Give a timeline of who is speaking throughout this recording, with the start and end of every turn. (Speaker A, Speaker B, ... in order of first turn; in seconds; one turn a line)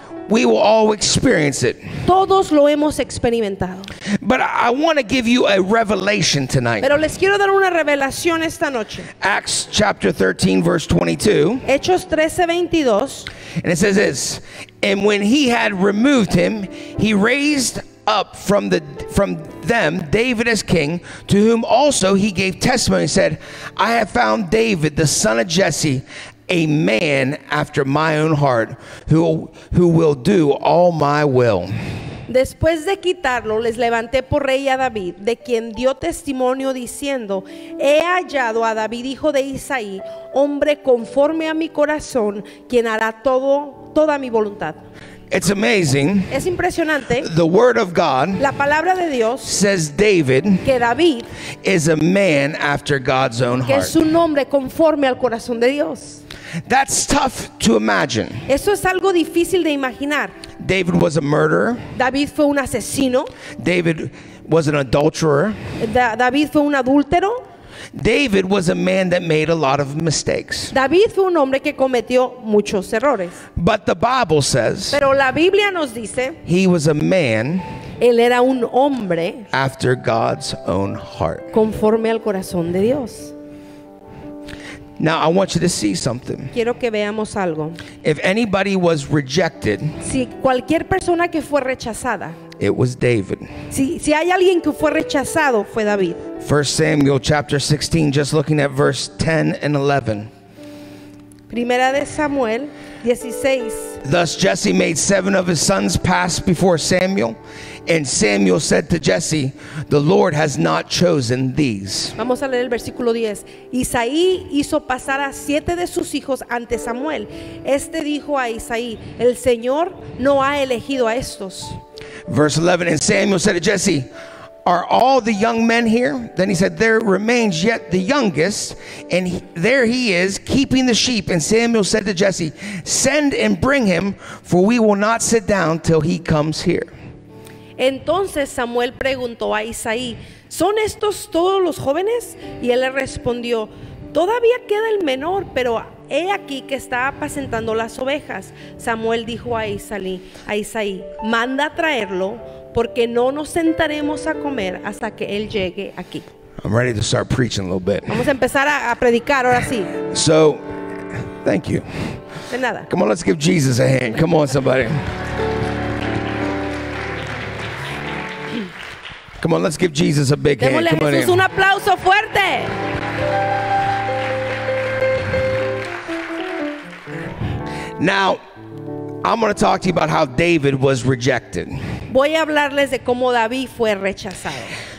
Speaker A: 0.3-1.8
Speaker B: 2.0-3.9
Speaker A: 4.2-6.9
Speaker B: 6.8-9.1
Speaker A: 9.2-11.7
Speaker B: 11.7-13.3
Speaker A: 13.6-31.7
Speaker B: 32.3-44.8
Speaker A: 45.3-46.3
Speaker B: 46.3-47.3
Speaker A: 47.2-48.5
Speaker B: 48.4-49.5
Speaker A: 49.4-50.7
Speaker B: 50.6-51.3
Speaker A: 51.6-54.0
Speaker B: 53.7-56.2
Speaker A: 56.7-58.4
Speaker B: 58.5-60.4
Speaker A: 60.6-61.8
Speaker B: 62.0-63.3
Speaker A: 63.6-65.6
Speaker B: 65.8-67.4
Speaker A: 67.9-70.7
Speaker B: 70.7-73.4
Speaker A: 73.6-75.0
Speaker B: 74.9-76.4
Speaker A: 76.5-77.6
Speaker B: 78.0-79.5
Speaker A: 79.5-81.5
Speaker B: 81.5-83.3
Speaker A: 85.0-86.5
Speaker B: 86.5-87.8
Speaker A: 88.0-90.0
Speaker B: 90.0-92.4
Speaker A: 92.6-93.5
Speaker B: 93.7-96.2
Speaker A: 96.4-100.3
Speaker B: 101.5-104.0
Speaker A: 104.0-112.2
Speaker B: 112.2-121.8
Speaker A: 122.3-124.1
Speaker A: 124.7-136.9
Speaker B: 137.8-156.3
Speaker A: 156.6-158.2
Speaker B: 158.1-159.9
Speaker A: 160.1-160.6
Speaker A: 161.4-162.0
Speaker B: 162.5-162.9
Speaker A: 162.9-165.0
Speaker A: 169.4-171.4
Speaker B: 170.6-172.7
Speaker A: 178.0-178.4
Speaker A: 179.2-181.8
Speaker B: 182.1-184.7